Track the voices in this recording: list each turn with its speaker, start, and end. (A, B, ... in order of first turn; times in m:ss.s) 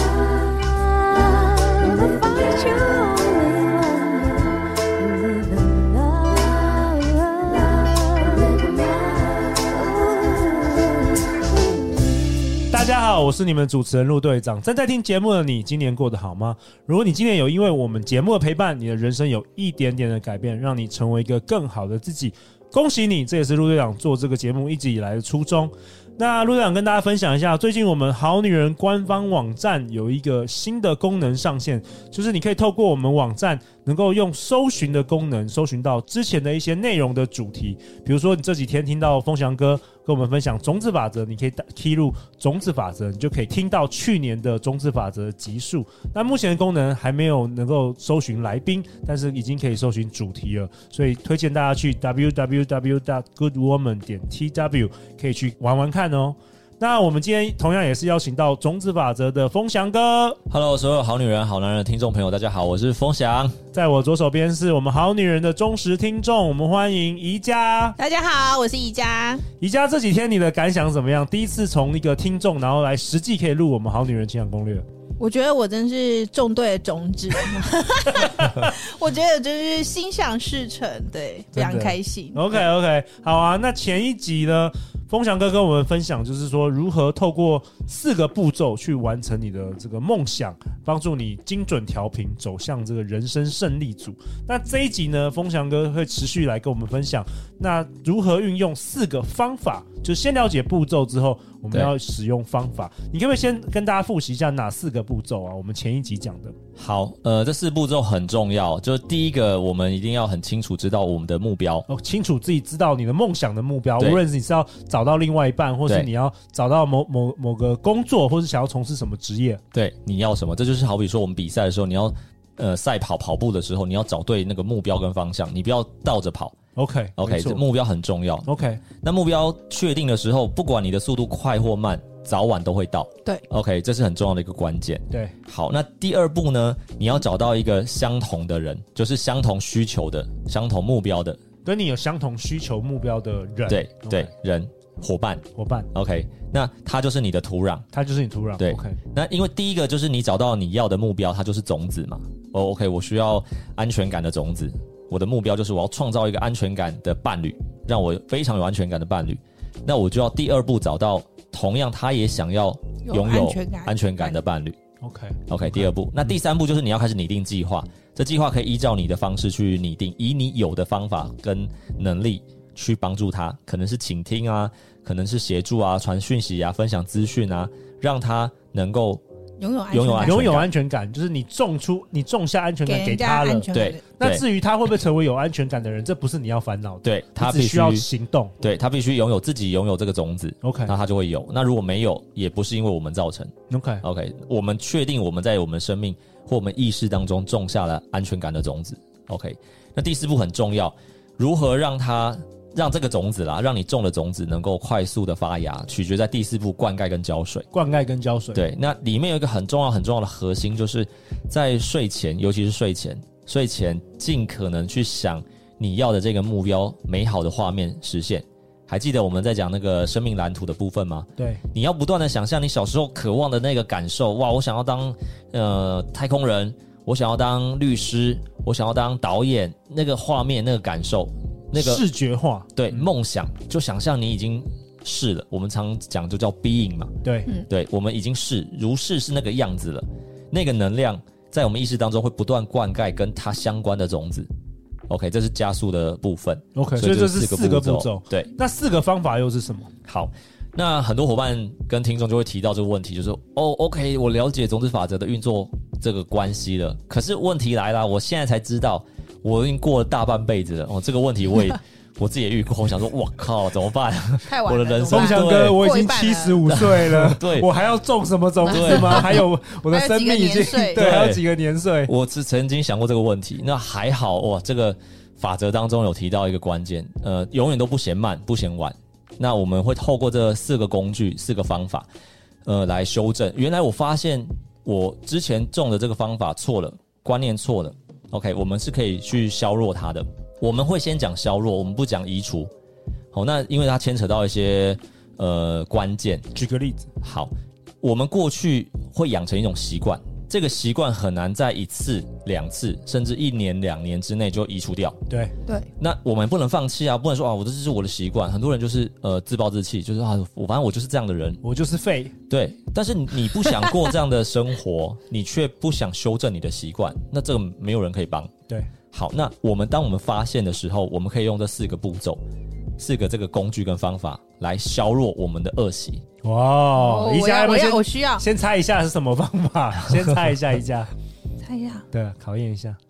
0:01.1-0:04.4 A
0:05.3-0:10.8 A
0:12.7-1:00.4 B
1:00.5-1:03.6 C
1:03.7-1:08.0 B
1:08.0-1:09.4 A
1:09.6-1:14.8 B
1:15.2-1:22.6 A
1:18.2-1:18.7 B
1:21.5-1:46.5 B
1:46.8-1:51.8 C
1:51.9-1:59.6 B
1:59.7-2:06.5 C
2:06.8-2:07.6 B
2:07.2-2:08.5 C
2:08.4-2:08.8 B
2:09.0-2:21.4 C
2:15.1-2:15.3 B
2:21.6-2:24.3 B
2:23.7-2:27.8 C
2:25.6-2:25.9 B
2:27.9-2:29.0 B
2:28.6-2:44.8 C
2:43.0-2:44.4 A
2:45.0-2:45.9 B
2:45.5-2:59.2 C
2:59.6-3:00.7 A
2:59.9-3:00.7 C
3:00.2-3:08.5 B
3:02.8-3:04.1 A
3:03.7-3:04.4 C
3:07.0-3:08.0 C
3:08.6-3:13.5 C
3:10.6-3:10.9 B
3:13.7-3:14.0 B
3:14.0-3:27.7 C
3:27.7-3:28.6 B
3:28.5-3:52.0 C
3:41.4-3:41.6 B
3:51.8-3:53.1 B
3:52.7-4:04.5 C
3:57.2-3:57.5 B
4:05.1-4:08.5 C
4:06.7-4:09.9 B
4:10.0-4:25.8 C
4:24.4-4:26.6 A
4:25.1-4:32.1 B
4:26.7-4:27.7 C
4:28.6-4:29.4 C
4:28.7-4:31.0 A
4:30.9-4:31.4 C
4:32.0-4:42.1 C
4:42.6-4:52.7 C
4:53.3-4:56.5 C
4:56.5-4:57.1 B
4:57.2-5:05.2 C
5:05.3-5:05.5 B
5:06.0-5:11.6 C
5:11.6-5:12.3 B
5:12.5-5:18.5 C
5:19.1-5:22.4 C
5:23.0-5:26.2 C
5:26.4-5:31.1 B
5:26.9-5:28.4 A
5:31.6-5:32.1 A
5:32.1-5:33.0 B